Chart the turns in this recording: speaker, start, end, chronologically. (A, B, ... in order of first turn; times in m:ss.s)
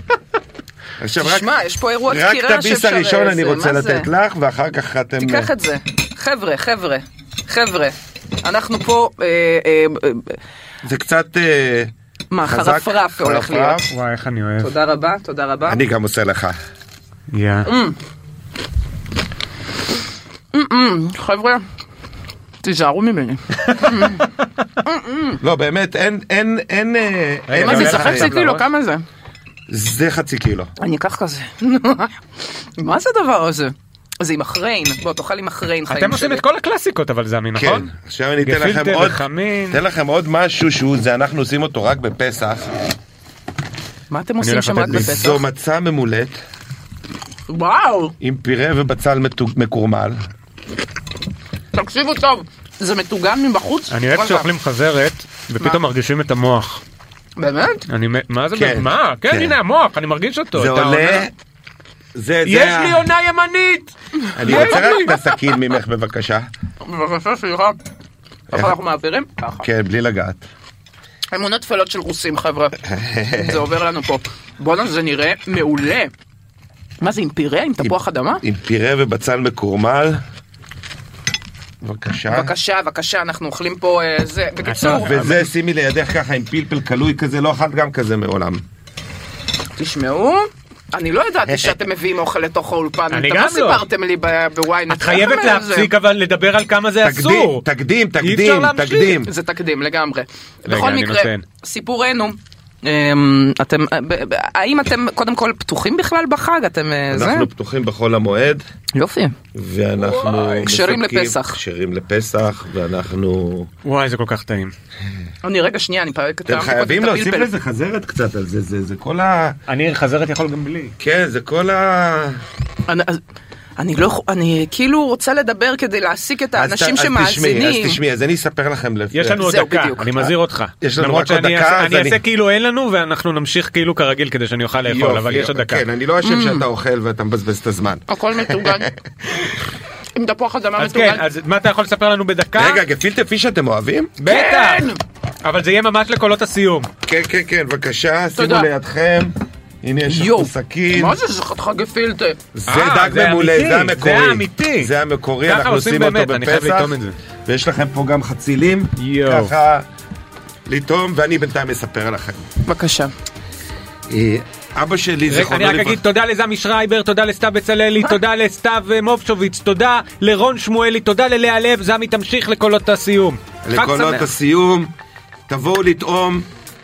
0:01.0-0:05.5 A
0:01.2-0:04.1 B
0:05.2-0:10.4 B
0:10.8-0:11.9 A
0:12.3-0:13.8 B
0:12.4-0:13.9 A
0:13.9-0:14.7 C
0:14.6-0:15.8 B
0:15.7-0:16.6 A
0:17.3-0:17.7 C
0:17.7-0:18.0 B
0:20.5-0:21.6 B
0:22.6-0:24.3 B
0:24.8-0:25.4 B
0:25.4-0:28.3 A
0:27.5-0:28.7 C
0:27.6-0:29.0 B
0:29.7-0:30.7 A
0:30.8-0:32.1 B
0:32.8-0:36.4 B
0:35.9-0:39.8 C
0:37.6-0:42.7 A
0:44.1-0:45.4 B
0:44.4-0:45.1 C
0:44.8-0:46.4 A
0:47.5-0:48.1 B
0:48.2-0:50.2 A
0:51.7-0:54.5 B
0:53.9-0:56.8 C
0:57.4-0:57.8 B
0:57.9-1:01.3 C
0:58.5-0:59.6 A
1:00.5-1:01.3 A
1:02.2-1:03.1 A
1:02.4-1:05.2 C
1:04.4-1:06.5 A
1:04.4-1:05.1 B
1:06.8-1:07.8 B
1:08.5-1:09.7 B
1:08.5-1:08.8 A
1:09.6-1:10.4 A
1:11.3-1:12.8 B
1:12.8-1:13.6 A
1:13.3-1:16.1 B
1:17.0-1:18.4 B
1:17.8-1:20.2 A
1:21.8-1:22.5 A
1:22.3-1:25.4 B
1:24.6-1:25.4 C
1:25.0-1:28.6 A
1:29.8-1:35.9 B
1:31.5-1:31.8 A
1:33.1-1:33.9 C
1:34.9-1:37.6 C
1:37.0-1:39.3 A
1:38.2-1:39.2 C
1:39.1-1:47.5 B
1:40.6-1:41.4 C
1:47.1-1:48.6 A
1:49.0-1:49.3 B
1:49.5-1:53.7 A
1:50.0-1:51.6 B
1:53.8-1:54.7 C
1:55.4-1:57.5 B
1:56.5-1:59.6 A
1:59.7-2:00.9 C
2:01.0-2:02.4 A
2:02.9-2:03.2 B
2:03.8-2:08.0 B
2:06.5-2:09.4 A
2:09.1-2:15.8 C
2:09.4-2:10.3 B
2:10.8-2:12.2 A
2:14.9-2:18.9 A
2:16.2-2:16.6 B
2:18.1-2:18.9 B
2:20.2-2:21.2 B
2:20.8-2:22.8 C
2:22.6-2:24.2 A
2:24.2-2:26.9 C
2:24.2-2:25.0 B
2:27.0-2:31.2 A
2:28.4-2:28.7 B
2:30.1-2:32.4 B
2:32.6-2:39.9 A
2:32.7-2:34.9 C
2:35.4-2:37.2 C
2:39.0-2:39.5 C
2:40.7-2:42.4 A
2:42.6-2:43.1 B
2:44.1-2:46.0 A
2:45.3-2:54.3 C
2:53.6-2:54.9 A
2:55.5-2:56.5 A